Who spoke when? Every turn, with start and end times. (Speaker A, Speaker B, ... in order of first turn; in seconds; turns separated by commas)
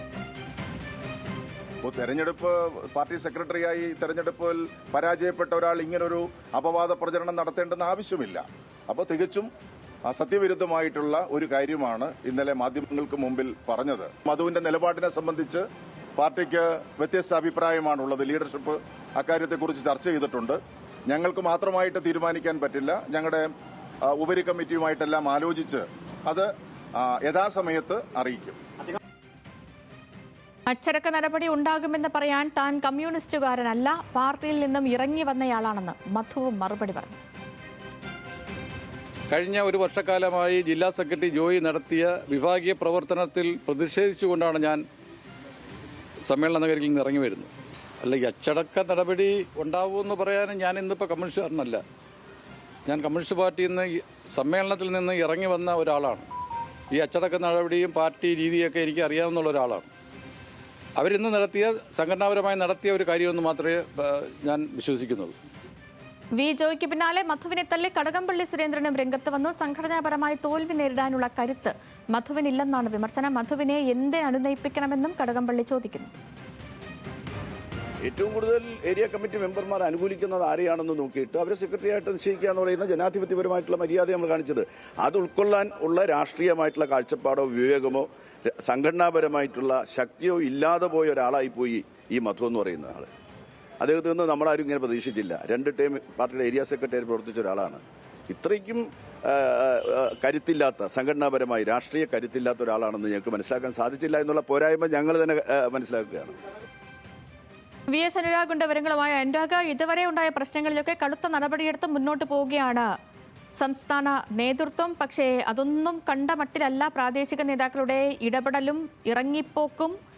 Speaker A: 1.8-9.5, Speaker A: 10.1-15.6, Speaker A: 16.2-20.6, Speaker A: 21.1-23.5, Speaker A: 24.1-28.6, Speaker B: 30.7-37.2, Speaker C: 39.3-44.8, Speaker C: 46.2-47.5, Speaker C: 48.0-51.8, Speaker C: 52.9-56.3, Speaker C: 56.9-59.9, Speaker C: 61.0-65.3, Speaker B: 66.3-76.1, Speaker D: 78.0-93.1, Speaker D: 93.8-106.4, Speaker B: 107.9-112.9, Speaker B: 113.6-119.9